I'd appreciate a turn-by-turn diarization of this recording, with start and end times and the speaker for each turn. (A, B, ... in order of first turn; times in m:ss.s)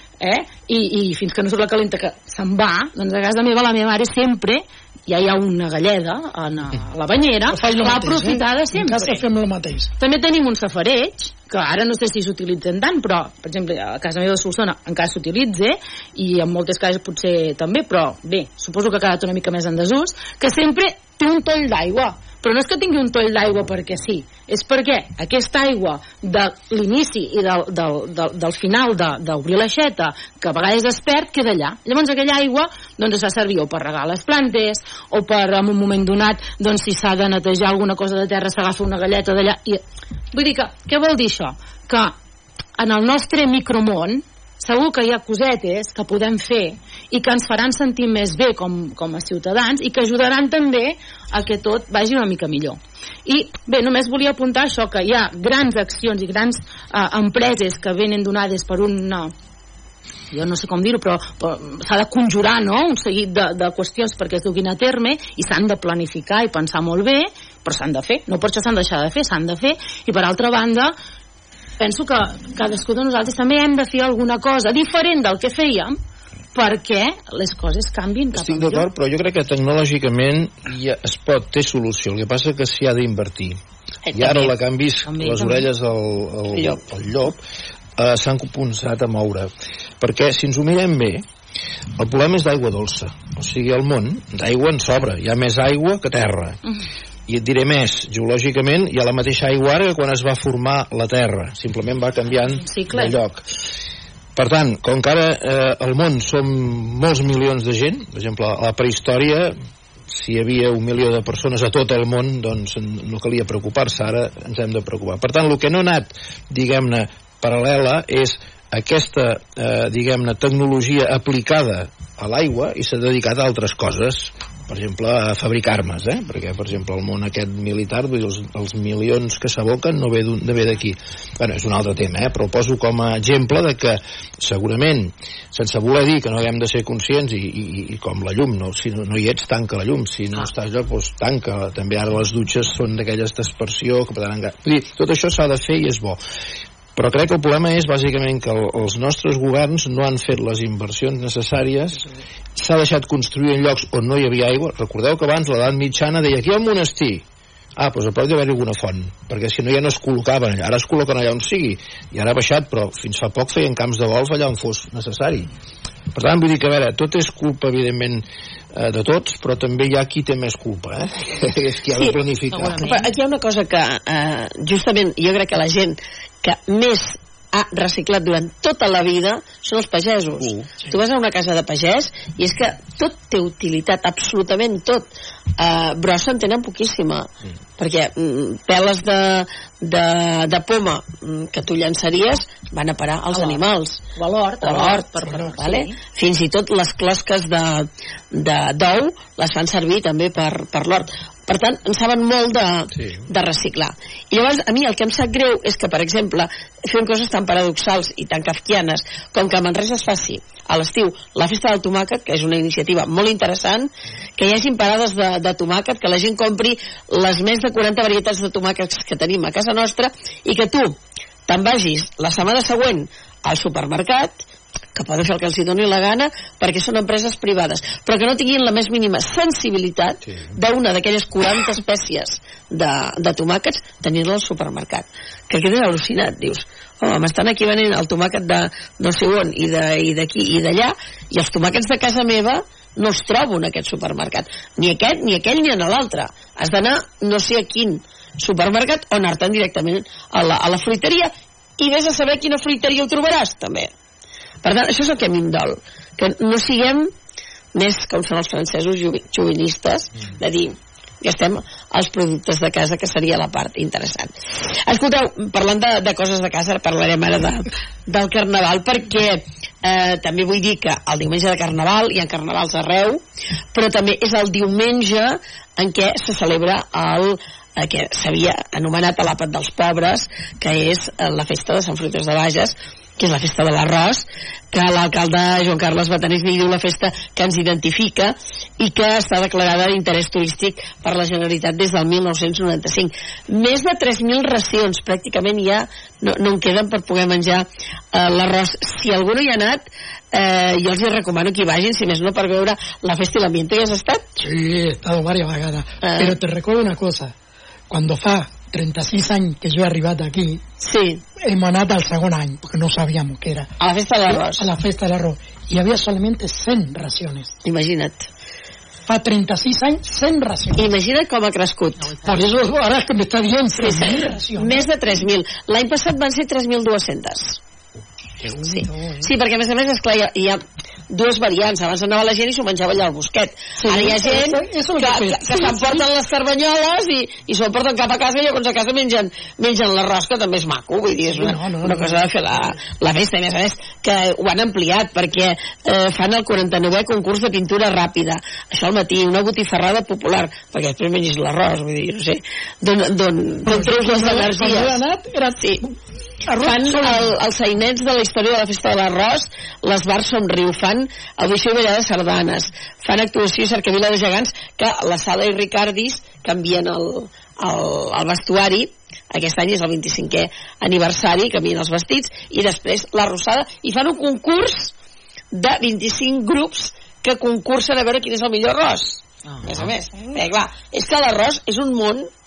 0:00.2-0:09.2 A
0:07.5-0:09.9 B
0:10.0-0:42.2 A
0:42.8-0:59.3 A
1:00.3-1:11.0 A
1:11.8-1:16.0 A
1:16.5-1:18.9 A
1:18.3-1:23.6 C
1:24.1-1:24.5 D
1:24.1-1:27.4 C
1:25.1-1:25.7 A
1:26.5-1:26.8 D
1:28.0-1:31.2 C
1:32.0-1:36.6 C
1:37.3-1:43.4 C
1:42.6-1:43.2 A
1:44.4-1:49.6 C
1:50.1-2:26.2 C
2:27.0-2:32.0 C
2:32.6-2:37.2 C
2:37.8-2:45.5 C
2:46.1-2:52.8 C
2:52.5-2:53.1 A
2:52.8-3:14.0 D
3:13.3-3:13.6 A
3:14.2-3:16.0 A
3:14.6-4:13.9 D
3:23.0-3:23.2 C
4:14.6-4:17.1 D
4:17.8-4:33.2 D
4:33.7-5:04.3 D
5:04.4-5:07.3 B
5:06.0-5:06.4 D
5:07.9-5:10.6 B
5:10.8-5:11.2 D
5:11.4-5:13.7 B
5:13.8-5:14.7 D
5:14.2-5:17.6 B
5:17.6-5:18.3 D
5:19.1-5:20.9 B
5:20.8-5:22.3 D
5:22.2-5:24.9 B
5:23.8-5:27.6 D
5:28.4-5:29.3 B
5:28.6-5:55.0 D
5:33.8-5:36.1 B
5:41.3-5:42.7 B
5:53.6-5:56.0 B
5:56.5-5:57.3 B
5:56.6-6:14.9 D
6:15.5-6:22.3 D